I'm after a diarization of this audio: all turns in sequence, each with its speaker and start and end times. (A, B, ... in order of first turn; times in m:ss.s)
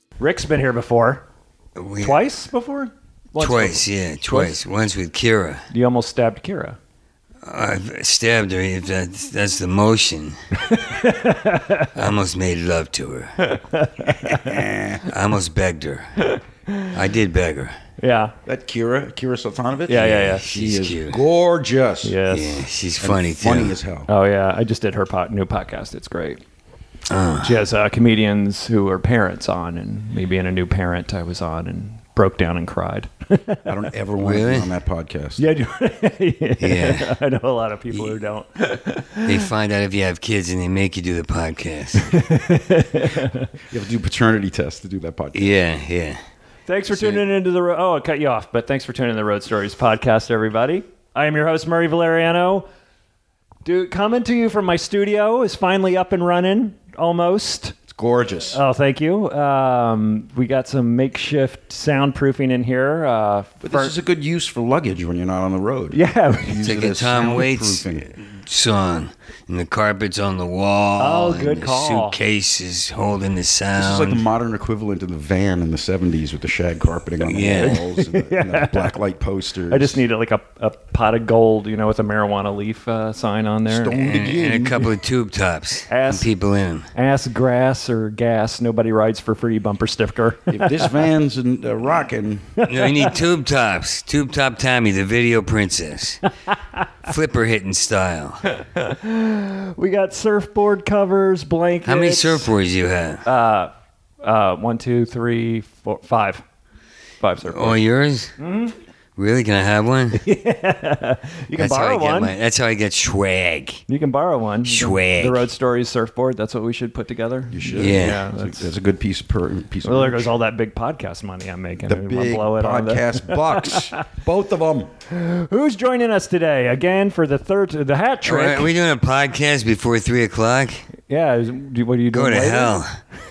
0:00.2-0:01.2 A
0:01.8-0:02.2 B
0:02.0-0:04.6 A
0:03.4-0:05.6 B
0:05.7-0:06.8 A
0:07.4-0:10.4 B
0:10.7-0:11.9 A
0:11.9-0:13.3 B
0:13.4-0:14.5 A
0:14.2-0:15.0 C
0:15.1-0:16.2 B
0:16.2-0:16.9 A
0:16.9-0:17.7 B
0:18.0-0:18.3 A
0:18.4-0:22.2 C
0:19.9-0:20.5 A
0:19.9-0:21.2 B
0:22.0-0:22.6 A
0:22.3-0:23.7 B
0:23.0-0:24.1 C
0:24.1-0:26.4 A
0:27.1-0:27.5 B
0:27.4-0:33.6 A
0:33.6-0:35.4 C
0:34.2-0:34.7 B
0:35.4-0:39.3 A
0:36.6-0:37.1 B
0:39.2-0:42.1 B
0:42.1-0:43.5 A
0:43.7-0:45.5 C
0:45.3-0:46.2 B
0:46.7-0:52.6 A
0:46.9-0:47.2 B
0:53.6-0:57.8 A
0:57.9-0:58.6 C
0:58.5-1:03.9 A
1:03.6-1:08.1 C
1:05.9-1:06.6 A
1:06.6-1:14.2 B
1:11.0-1:12.1 A
1:13.8-1:20.0 C
1:17.2-1:17.8 B
1:17.6-1:18.9 A
1:19.7-1:24.0 A
1:23.7-1:24.9 C
1:24.0-1:26.9 B
1:25.9-1:26.3 A
1:26.9-1:31.0 A
1:30.5-1:32.6 C
1:32.6-1:32.9 A
1:32.7-1:36.2 B
1:37.0-1:38.4 B
1:38.5-1:42.5 A
1:41.8-1:43.2 B
1:43.2-1:43.7 A
1:44.2-1:46.4 A
1:47.2-1:47.8 A
1:47.5-1:48.3 B
1:48.4-1:48.7 A
1:49.2-1:50.2 B
1:50.2-1:52.3 A
1:51.6-1:53.8 B
1:53.9-1:58.7 A
1:54.6-1:55.4 B
1:57.5-2:00.3 C
1:57.8-1:58.2 B
1:59.8-2:03.9 A
2:01.8-2:04.9 C
2:05.1-2:08.7 A
2:08.2-2:10.9 B
2:11.1-2:12.8 A
2:12.1-2:13.0 B